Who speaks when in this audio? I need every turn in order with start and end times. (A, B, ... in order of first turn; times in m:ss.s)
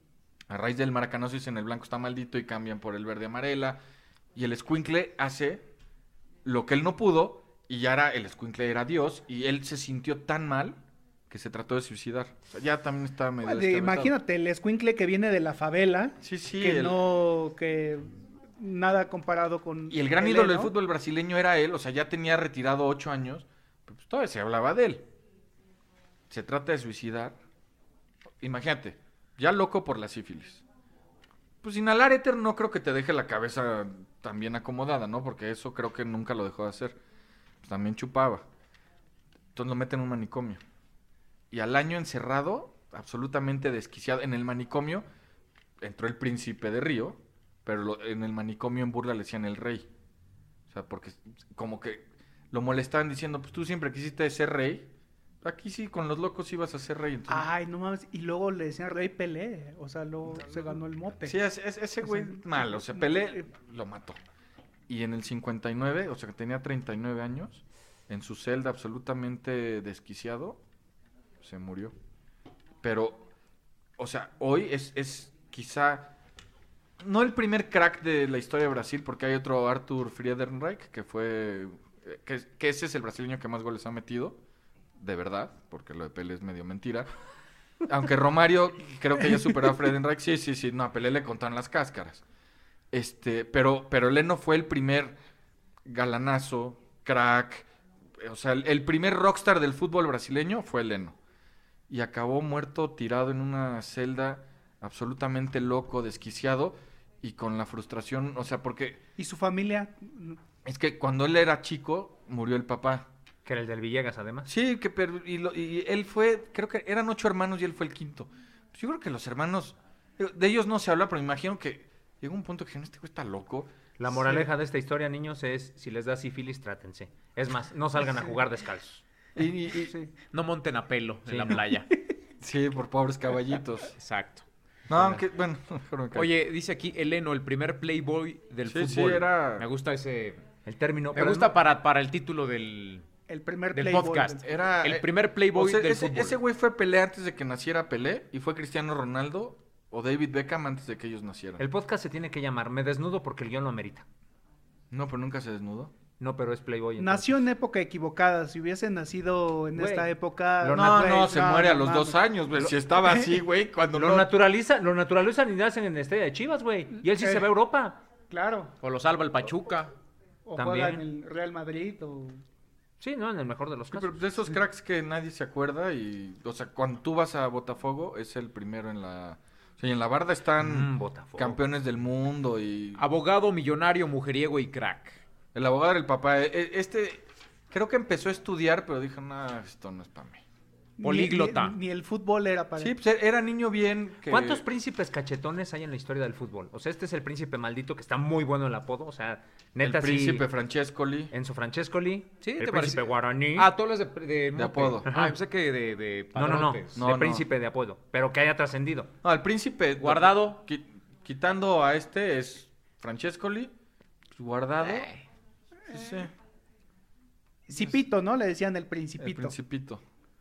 0:00.5-0:03.8 A
0:04.4-0:05.6 A
0:06.4-0:10.8 A
0:11.3-0:14.1 A
0:13.4-0:20.7 B
0:16.2-0:17.0 A
0:19.9-0:25.1 A
0:26.3-0:27.4 A
0:28.4-0:30.6 A
0:31.6-0:37.0 A
0:37.6-0:38.5 A
0:39.6-0:40.6 A
0:41.5-0:45.0 A
0:45.8-0:49.9 A
0:50.7-0:54.9 A
0:55.4-0:57.5 A
0:57.3-1:01.4 B
1:01.2-1:04.2 A
1:02.0-1:03.2 B
1:04.9-1:10.6 A
1:11.4-1:11.9 A
1:12.8-1:13.2 A
1:14.0-1:16.1 A
1:17.0-1:24.4 A
1:25.0-1:27.1 A
1:27.9-1:32.2 A
1:32.9-1:35.1 A
1:35.8-1:37.7 A
1:38.2-1:41.2 A
1:41.9-1:49.0 A
1:49.2-1:50.4 B
1:50.6-1:53.1 A
1:53.4-1:54.5 C
1:54.4-2:04.5 A
2:04.0-2:09.0 C
2:09.4-2:09.9 A
2:10.3-2:11.9 D
2:11.3-2:11.6 C
2:12.4-2:13.9 A
2:14.0-2:14.4 D
2:14.9-2:16.3 A
2:16.1-2:20.4 D
2:18.6-2:19.6 A
2:20.6-2:21.6 C
2:21.1-2:23.1 D
2:23.3-2:24.4 B
2:23.7-2:26.4 D
2:24.4-2:31.6 A
2:31.6-2:34.0 C
2:34.9-2:35.9 A
2:36.2-2:37.4 C
2:37.0-2:42.2 B
2:39.8-2:41.2 C
2:40.7-2:44.3 A
2:43.9-2:48.0 C
2:47.1-2:47.4 B
2:48.3-2:48.7 B
2:48.8-2:49.9 D
2:50.4-2:52.4 B
2:50.6-2:51.0 C
2:53.0-2:54.3 C
2:53.9-3:03.0 A
3:00.6-3:01.6 C
3:03.0-3:05.2 D
3:05.5-3:10.4 A
3:11.0-3:12.9 B
3:11.0-3:11.8 D
3:12.8-3:14.6 A
3:14.3-3:20.5 C
3:19.8-3:21.3 A
3:21.3-3:23.7 C
3:22.4-3:27.0 D
3:24.5-3:25.1 A
3:25.0-3:25.3 C
3:26.4-3:29.1 C
3:26.9-3:27.5 A
3:29.2-3:33.7 A
3:30.0-3:30.6 D
3:34.4-3:35.1 A
3:35.9-3:36.3 A
3:37.7-3:39.5 B
3:37.7-3:38.0 A
3:39.2-3:40.0 A